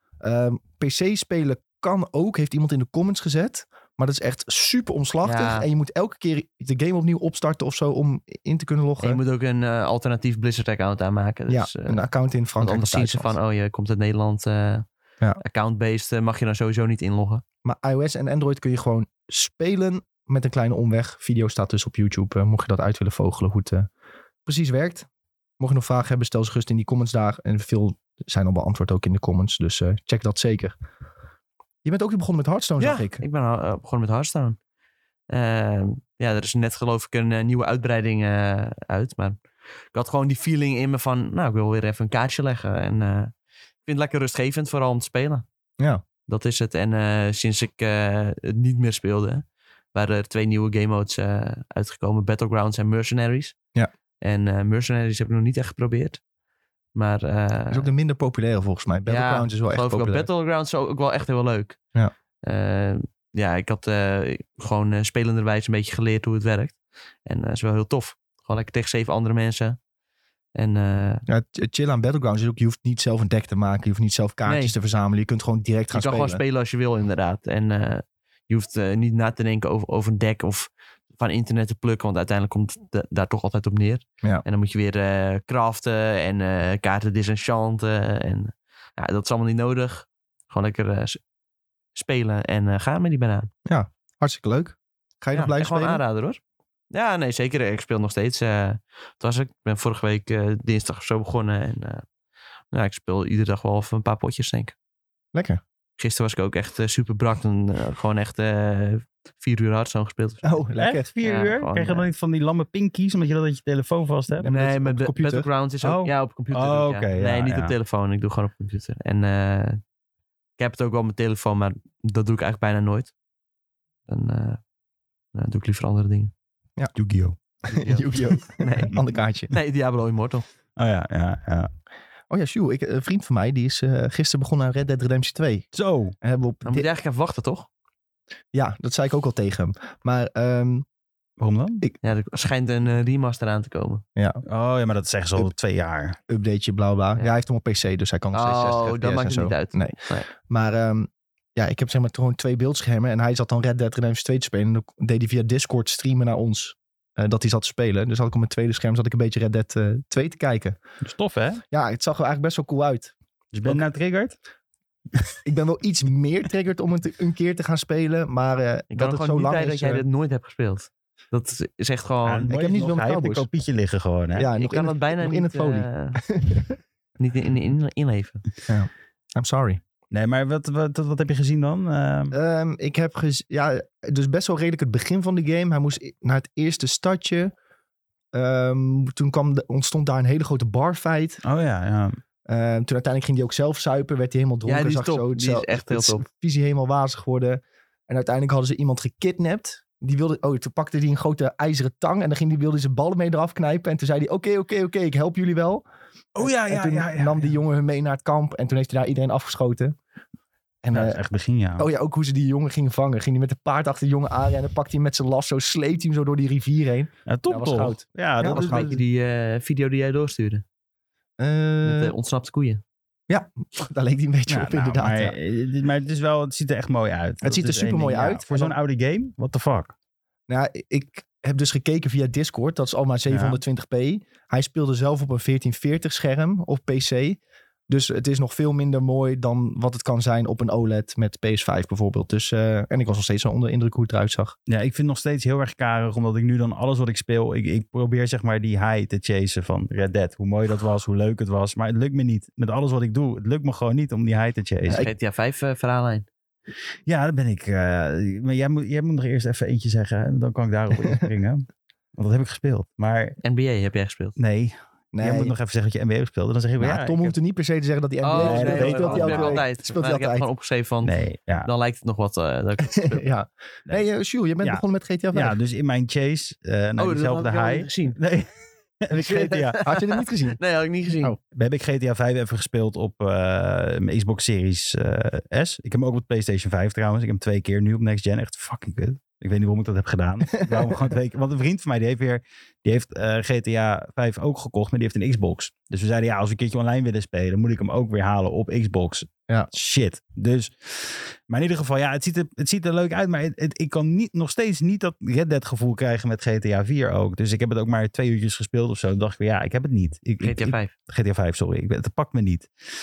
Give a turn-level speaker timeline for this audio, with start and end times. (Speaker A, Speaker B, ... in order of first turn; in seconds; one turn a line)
Speaker A: 0.2-9.2
Speaker B: 5.2-5.7
Speaker B: 9.0-12.0
Speaker A: 11.5-13.4
Speaker B: 12.6-14.8
Speaker B: 15.4-17.4
Speaker A: 17.6-23.9
Speaker A: 24.4-25.1
Speaker A: 25.6-30.7
Speaker A: 31.8-33.2
Speaker B: 32.8-34.6
Speaker B: 35.3-39.4
Speaker B: 39.9-43.3
Speaker B: 43.8-45.5
Speaker B: 46.3-53.5
Speaker B: 54.2-56.2
Speaker B: 56.9-57.9
Speaker A: 57.7-60.3
Speaker B: 59.1-61.8
Speaker B: 62.4-69.8
Speaker B: 70.5-71.2
Speaker A: 71.3-76.4
Speaker B: 74.5-74.7
Speaker B: 75.9-91.2
Speaker B: 91.9-93.5
Speaker A: 93.7-96.0
Speaker B: 95.3-96.4
Speaker B: 96.9-102.0
Speaker B: 102.7-104.7
Speaker A: 105.3-105.6
Speaker B: 106.0-110.6
Speaker A: 110.4-111.1
Speaker C: 110.8-114.5
Speaker B: 111.2-112.1
Speaker A: 114.4-115.5
Speaker B: 114.4-119.8
Speaker C: 115.8-117.7
Speaker B: 120.6-123.1
Speaker B: 124.1-124.6
Speaker B: 125.3-126.3
Speaker C: 127.0-127.4
Speaker B: 127.7-128.9
Speaker A: 127.7-129.5
Speaker B: 129.5-130.4
Speaker C: 130.8-131.7
Speaker A: 132.3-135.7
Speaker C: 135.7-136.1
Speaker A: 136.2-136.8
Speaker B: 136.6-137.7
Speaker A: 138.5-140.8
Speaker C: 141.4-141.8
Speaker B: 142.0-144.0
Speaker A: 144.2-144.4
Speaker C: 144.4-146.2
Speaker A: 146.3-160.8
Speaker B: 148.3-150.3
Speaker C: 161.0-161.6
Speaker A: 161.7-163.1
Speaker C: 163.5-164.3
Speaker A: 165.4-170.0
Speaker B: 168.9-172.5
Speaker C: 172.2-174.5
Speaker A: 172.5-173.5
Speaker A: 174.3-176.8
Speaker B: 174.5-176.2
Speaker B: 177.2-178.4
Speaker A: 178.7-179.8
Speaker C: 180.1-182.3
Speaker A: 182.3-187.5
Speaker A: 188.3-191.4
Speaker C: 191.4-192.2
Speaker A: 192.5-205.8
Speaker B: 194.7-196.2
Speaker C: 206.3-207.5
Speaker A: 206.4-209.9
Speaker A: 210.8-211.2
Speaker C: 210.9-211.9
Speaker A: 211.8-218.9
Speaker C: 217.3-219.0
Speaker B: 218.4-220.6
Speaker A: 221.4-222.1
Speaker B: 221.8-222.8
Speaker A: 223.3-225.3
Speaker C: 224.5-229.9
Speaker A: 227.4-228.7
Speaker A: 230.5-244.5
Speaker C: 233.3-233.6
Speaker C: 244.7-255.0
Speaker B: 254.9-256.3
Speaker C: 257.1-263.4
Speaker B: 263.4-264.4
Speaker C: 264.4-267.3
Speaker A: 265.1-265.5
Speaker A: 266.8-270.5
Speaker B: 268.2-273.2
Speaker C: 268.4-269.6
Speaker C: 271.0-271.7
Speaker A: 272.9-275.6
Speaker C: 274.6-279.8
Speaker B: 277.0-278.2
Speaker B: 279.1-281.3
Speaker A: 279.8-280.6
Speaker C: 281.5-312.7
Speaker A: 290.6-291.0
Speaker B: 310.4-310.9